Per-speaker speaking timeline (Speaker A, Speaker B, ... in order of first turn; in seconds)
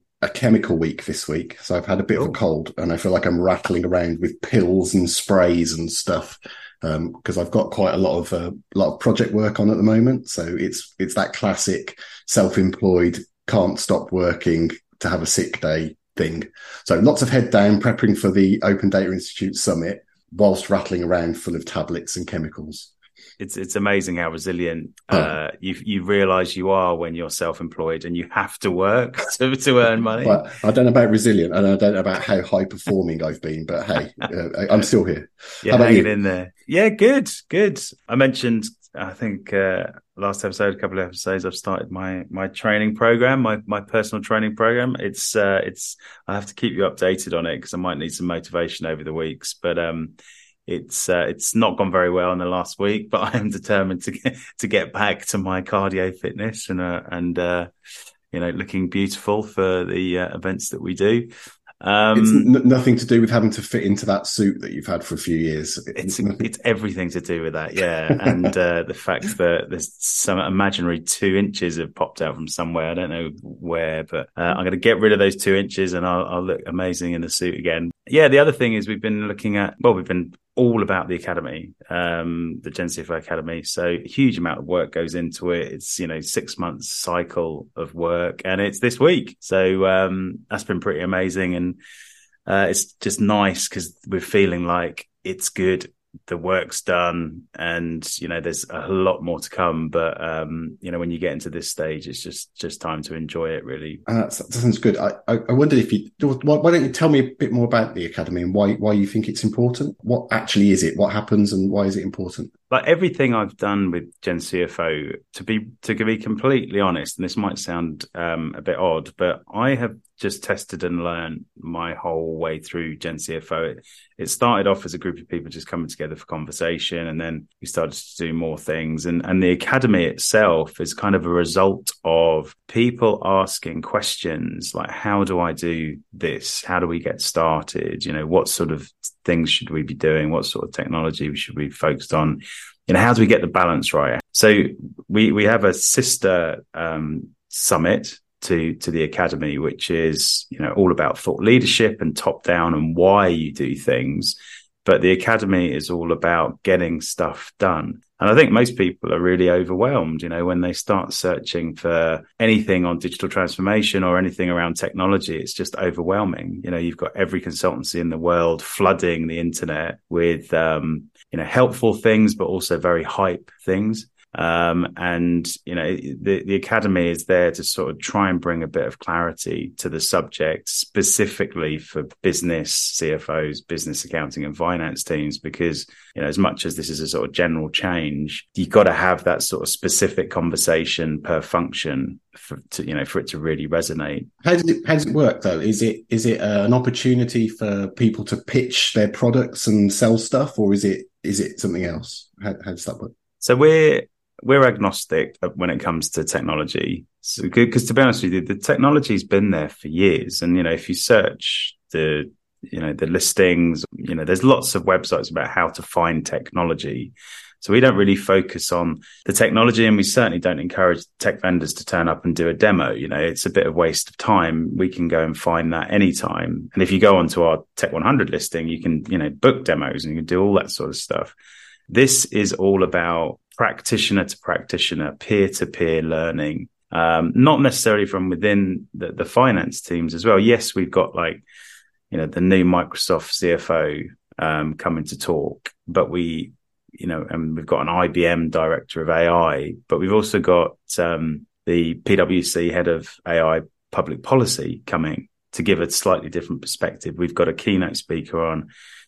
Speaker A: 0.2-22.9, 30.2-36.1, 62.1-66.5, 68.2-68.5, 104.1-112.5, 194.4-203.1
Speaker B: 23.4-30.4, 35.6-50.1, 50.6-57.7, 58.3-61.3, 61.8-62.5, 65.9-91.8, 92.5-104.0, 112.7-194.3, 203.4-231.3, 231.9-241.4, 242.1-258.7